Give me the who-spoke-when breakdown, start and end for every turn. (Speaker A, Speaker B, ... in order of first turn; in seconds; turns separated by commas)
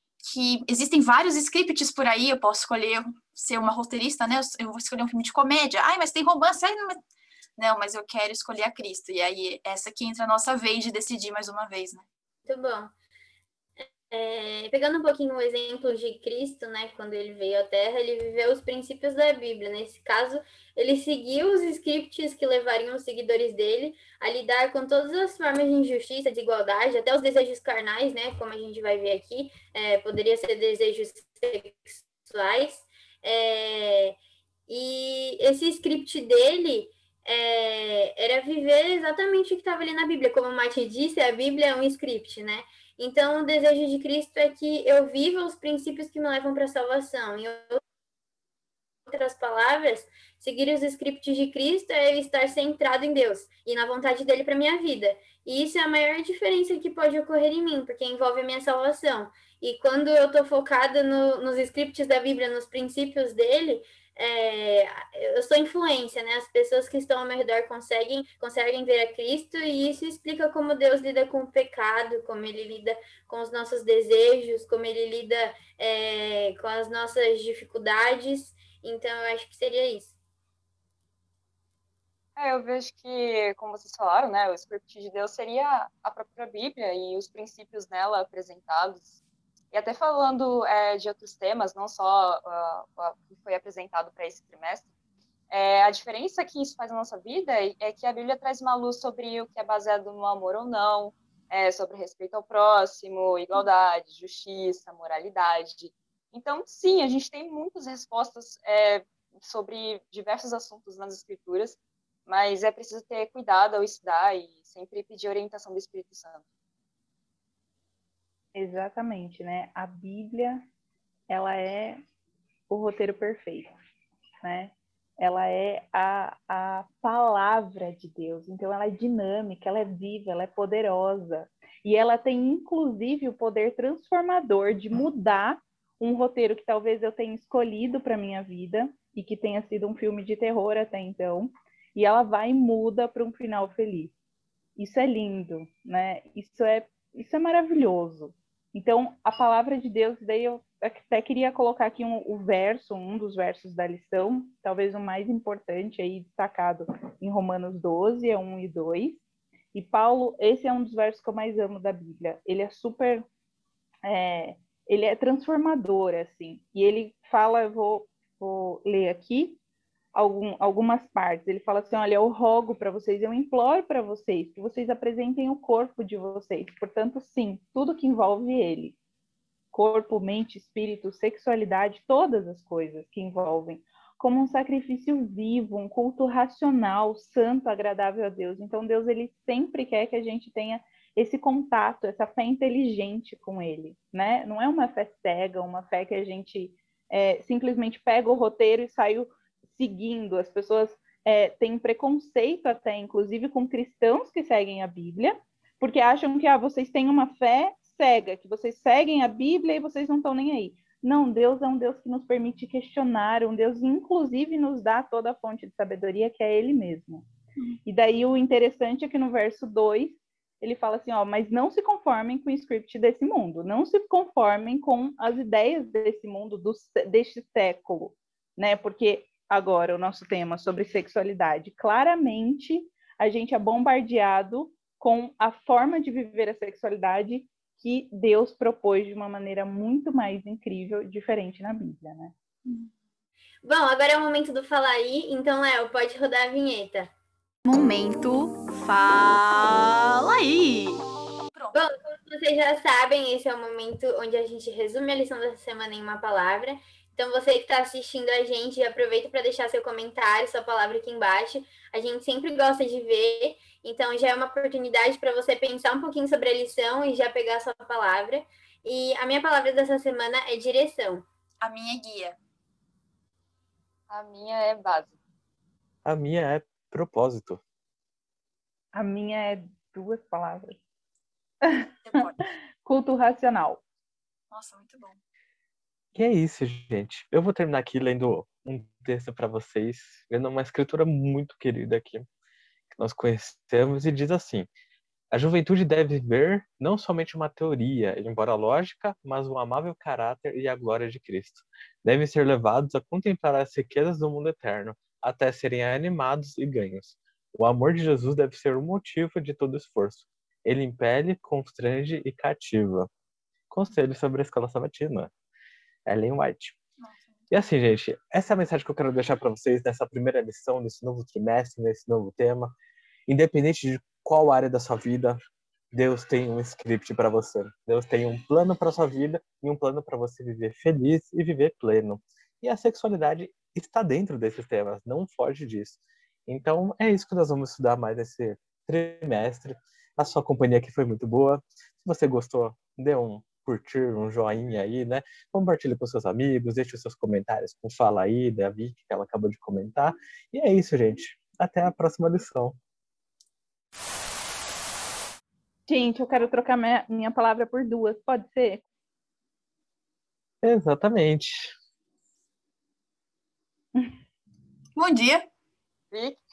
Speaker A: 0.2-7.0, Speaker A: 7.6-12.0, Speaker B: 12.4-12.9, Speaker B: 13.8-34.1, Speaker B: 34.7-47.8, Speaker B: 49.1-80.2, Speaker C: 82.3-89.2, Speaker C: 89.7-94.9, Speaker C: 95.5-116.4, Speaker D: 118.5-120.6, Speaker D: 121.3-122.0, Speaker D: 122.7-123.7, Speaker D: 124.4-144.1, Speaker D: 144.8-159.2, Speaker D: 159.7-163.2, Speaker D: 164.0-169.6, Speaker D: 170.1-178.9, Speaker D: 179.7-217.2, Speaker D: 217.8-242.3, Speaker A: 242.6-242.9, Speaker B: 243.6-247.1, Speaker A: 247.6-251.8, Speaker B: 251.7-271.2, Speaker A: 271.6-272.4, Speaker C: 274.1-275.1, Speaker E: 276.0-277.6, Speaker D: 278.9-280.8, Speaker A: 282.0-282.5, Speaker D: 282.8-283.8, Speaker A: 284.5-285.2, Speaker E: 286.1-292.3, Speaker E: 292.9-294.7, Speaker E: 295.3-313.1, Speaker E: 313.7-315.3, Speaker E: 316.1-316.8, Speaker A: 317.0-317.5, Speaker E: 317.5-322.7, Speaker E: 323.3-325.4, Speaker E: 325.9-352.8, Speaker D: 355.9-358.8, Speaker E: 360.6-361.7, Speaker A: 364.9-365.4, Speaker C: 366.1-366.4